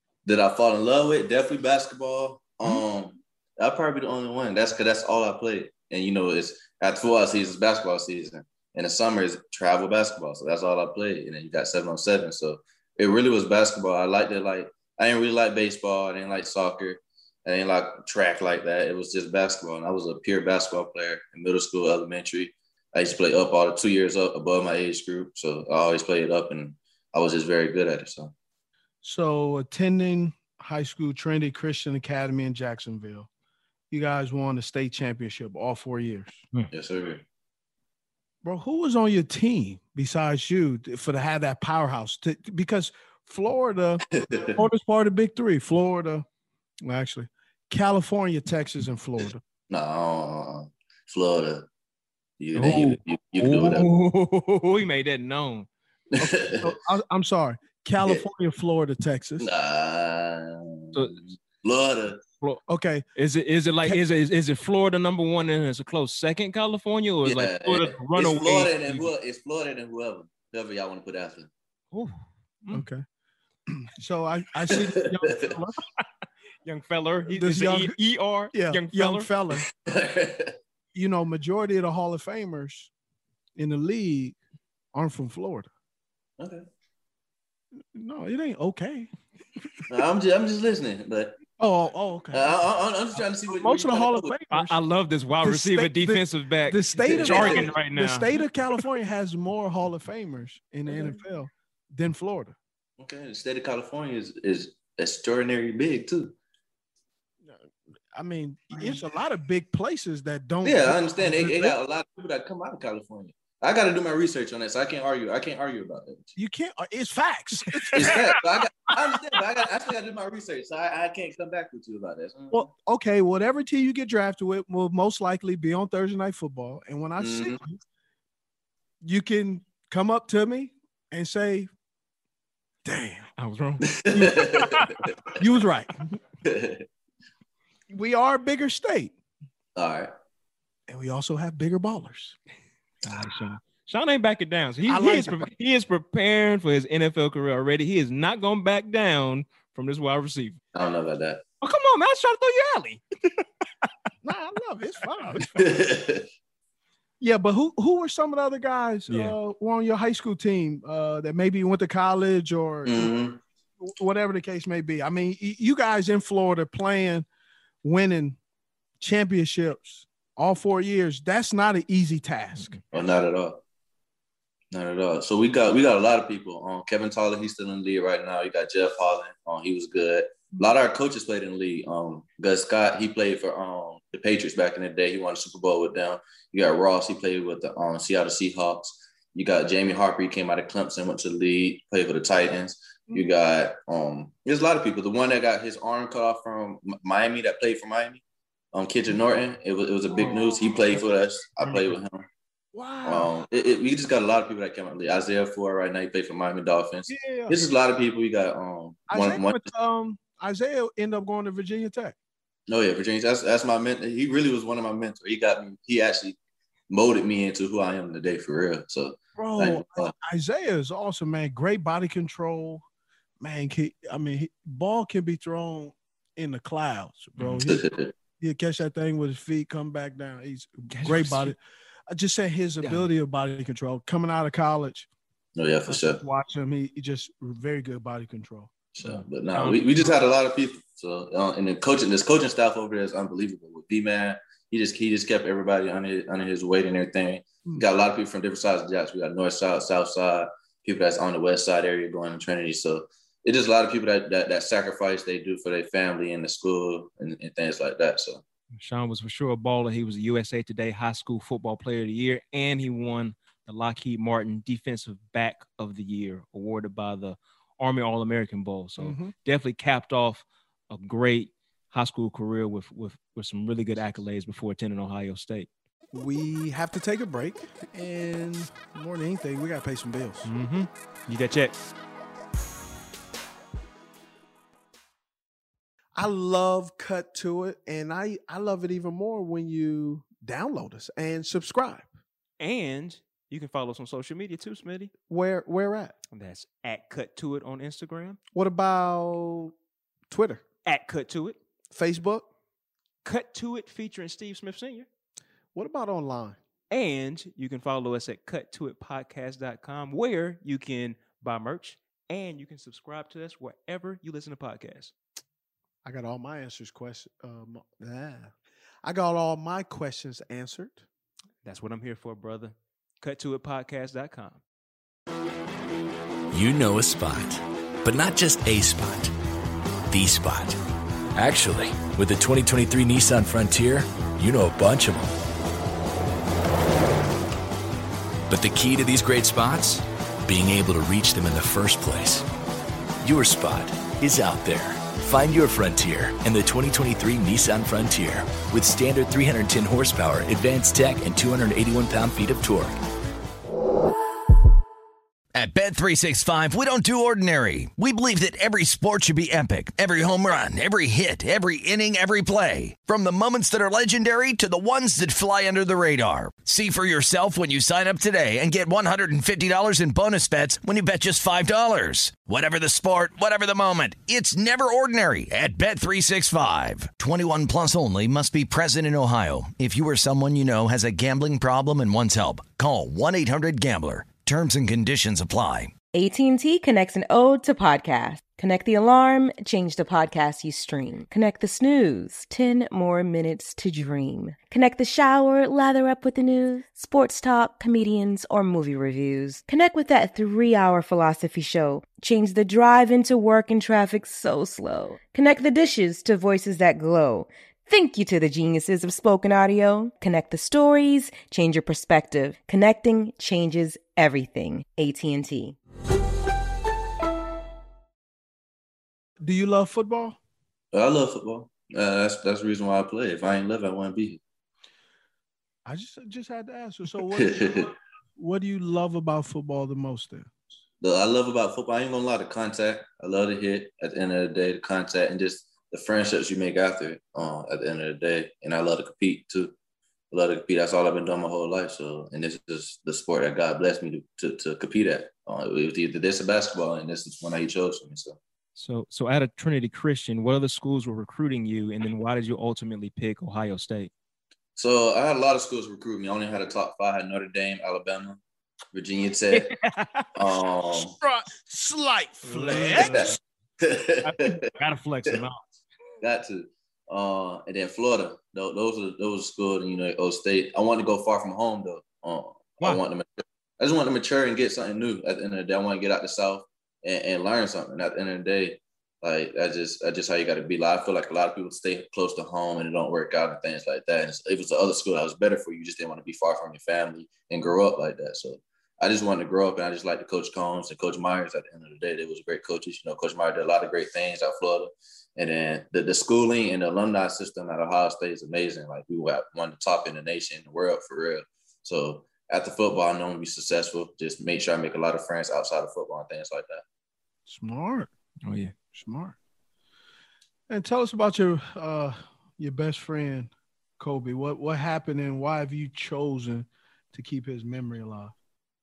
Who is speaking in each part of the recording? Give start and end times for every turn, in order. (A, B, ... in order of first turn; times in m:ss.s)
0:00.3-0:28.3 A
0:29.0-0:33.3 B
0:33.9-0:36.4 B
0:36.7-0:37.2 A
0:38.4-0:46.2 B
0:44.2-0:44.5 A
0:46.8-0:49.4 B
0:49.7-0:51.6 A
0:52.4-0:53.9 A
0:52.6-0:55.7 C
0:56.1-0:56.7 A
0:56.2-0:59.5 B
0:59.4-1:02.2 A
1:02.7-1:03.0 B
1:03.1-1:09.1 C
1:07.2-1:11.5 A
1:11.9-1:12.8 C
1:12.7-1:13.0 B
1:13.7-1:15.8 B
1:14.7-1:15.6 A
1:16.6-1:19.3 C
1:17.3-1:17.9 B
1:18.5-1:19.6 B
1:19.7-1:20.5 A
1:20.9-1:22.9 B
1:23.6-1:24.4 B
1:24.9-1:25.7 B
1:26.4-1:26.6 A
1:27.9-1:29.1 B
1:29.9-1:31.4 A
1:31.6-1:32.4 B
1:32.3-1:34.3 A
1:33.5-1:34.8 B
1:34.5-1:38.4 C
1:35.4-1:42.6 B
1:37.0-1:37.7 A
1:40.9-1:41.2 A
1:43.0-1:46.3 A
1:48.1-1:51.7 B
1:50.6-1:56.3 A
1:56.4-1:58.3 B
1:57.9-2:02.6 A
2:02.5-2:07.8 B
2:07.2-2:07.6 A
2:09.0-2:11.7 B
2:12.8-2:13.3 B
2:13.4-2:14.9 C
2:13.9-2:14.8 A
2:15.4-2:16.0 B
2:16.4-2:16.8 A
2:17.9-2:19.1 B
2:19.8-2:20.1 A
2:20.9-2:22.4 B
2:23.0-2:30.6 C
2:24.9-2:25.4 B
2:30.7-2:31.4 A
2:31.6-2:33.4 C
2:34.2-2:35.8 B
2:35.6-2:36.3 A
2:37.2-2:43.1 B
2:39.1-2:39.4 C
2:42.9-2:43.4 A
2:43.8-2:47.3 B
2:47.8-2:48.4 B
2:49.0-2:52.8 B
2:52.9-2:53.6 A
2:54.7-3:18.2 A
3:18.7-3:22.3 A
3:20.2-3:20.6 B
3:22.7-3:23.4 B
3:23.0-3:29.6 A
3:27.1-3:27.6 B
3:29.1-3:32.1 B
3:32.7-3:36.4 A
3:36.9-3:40.1 A
3:39.4-3:42.8 B
3:43.4-3:47.8 B
3:47.4-3:47.8 C
3:47.6-3:48.1 A
3:48.4-3:51.6 B
3:50.9-3:51.5 C
3:52.1-3:55.1 B
3:55.6-3:56.2 A
3:55.9-3:58.7 B
3:59.0-4:18.4 A
3:59.0-4:00.1 C
4:18.8-4:35.7 C
4:29.0-4:29.3 B
4:36.1-4:40.5 B
4:40.4-4:41.8 C
4:46.1-4:52.1 B
4:52.6-4:55.1 C
4:55.3-4:56.1 B
4:56.3-4:58.4 C
4:58.5-4:59.7 B
5:00.3-5:00.6 B
5:00.8-5:01.6 C
5:01.9-5:02.5 B
5:03.2-5:05.1 C
5:05.8-5:06.6 B
5:06.9-5:15.1 C
5:16.0-5:18.5 B
5:19.0-5:21.0 B
5:21.6-5:24.6 C
5:26.5-5:29.3 D
5:30.1-5:30.8 D
5:31.4-5:35.3 D
5:38.5-5:42.4 D
5:43.2-5:53.0 D
5:55.5-6:25.9 E
6:26.1-6:55.8 F
6:59.4-7:00.4 B
7:00.9-7:04.4 A
7:05.9-7:10.5 B
7:07.3-7:07.9 A
7:11.0-7:19.7 A
7:20.3-7:28.4 A
7:28.8-7:34.1 C
7:34.8-7:38.4 A
7:38.9-7:39.7 A
7:39.5-7:40.3 C
7:40.4-7:41.2 A
7:41.2-7:43.4 B
7:42.4-7:43.4 C
7:42.7-7:44.6 A
7:44.2-7:45.7 C
7:46.2-8:26.8 A
8:27.5-8:28.1 B
8:28.4-8:28.7 C
8:28.9-8:29.4 B
8:30.7-8:38.3 B